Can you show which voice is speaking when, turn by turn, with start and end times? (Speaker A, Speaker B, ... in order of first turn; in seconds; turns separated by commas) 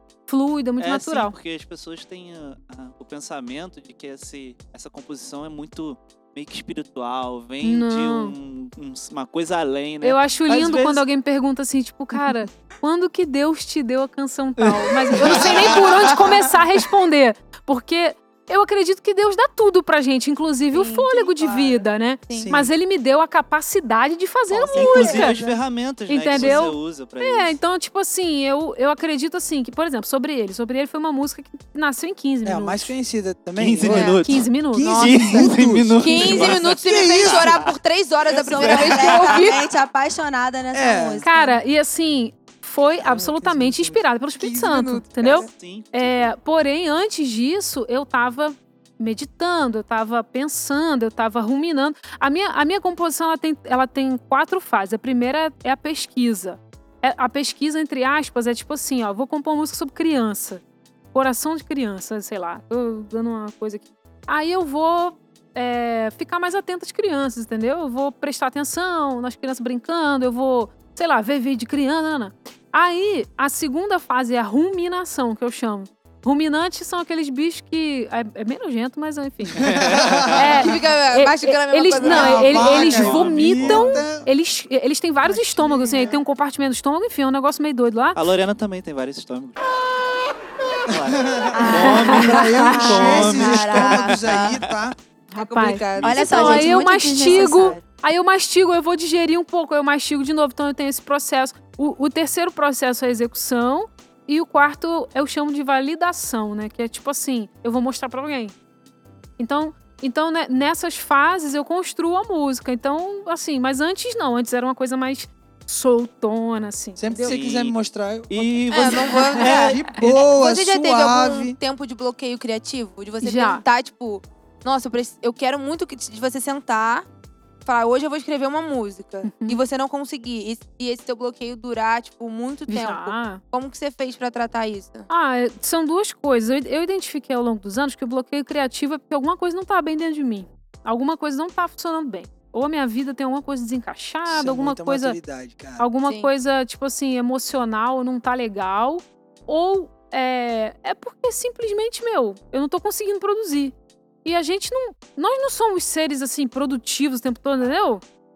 Speaker A: 0.3-1.4, Speaker B: 0.8-11.0, Speaker A: 7.6-8.3, Speaker A: 10.0-25.3, Speaker B: 14.6-16.1, Speaker C: 15.2-16.2, Speaker D: 20.7-21.7, Speaker E: 21.4-21.8, Speaker C: 22.3-22.7, Speaker E: 24.6-25.0, Speaker B: 24.8-27.6, Speaker C: 25.0-25.6, Speaker A: 26.1-32.9, Speaker C: 26.4-26.6, Speaker C: 32.4-34.2, Speaker B: 33.6-37.7, Speaker A: 33.9-35.5, Speaker C: 34.7-37.5, Speaker D: 36.0-39.7, Speaker E: 38.3-41.6, Speaker B: 38.6-39.5, Speaker C: 40.7-41.3, Speaker A: 41.2-60.6, Speaker C: 43.0-44.1, Speaker D: 44.4-45.5, Speaker B: 45.5-46.4, Speaker A: 61.1-88.2, Speaker C: 79.6-80.5, Speaker B: 79.6-80.7, Speaker D: 80.4-83.0, Speaker C: 82.0-84.3, Speaker B: 82.5-84.0, Speaker C: 85.3-86.2, Speaker B: 88.2-89.6, Speaker B: 90.9-94.5, Speaker C: 90.9-95.0, Speaker E: 91.5-94.6, Speaker A: 91.9-92.7, Speaker A: 95.3-108.5, Speaker D: 95.3-97.7, Speaker B: 96.0-96.2, Speaker E: 96.0-97.8, Speaker A: 109.4-117.4, Speaker C: 117.0-121.6, Speaker B: 117.2-117.8, Speaker B: 118.3-120.0, Speaker D: 118.7-127.1, Speaker A: 123.2-123.6, Speaker D: 127.7-135.1, Speaker A: 129.2-129.6, Speaker A: 132.7-133.4, Speaker A: 135.1-145.2, Speaker C: 144.3-145.8, Speaker A: 145.8-158.0, Speaker D: 146.0-146.3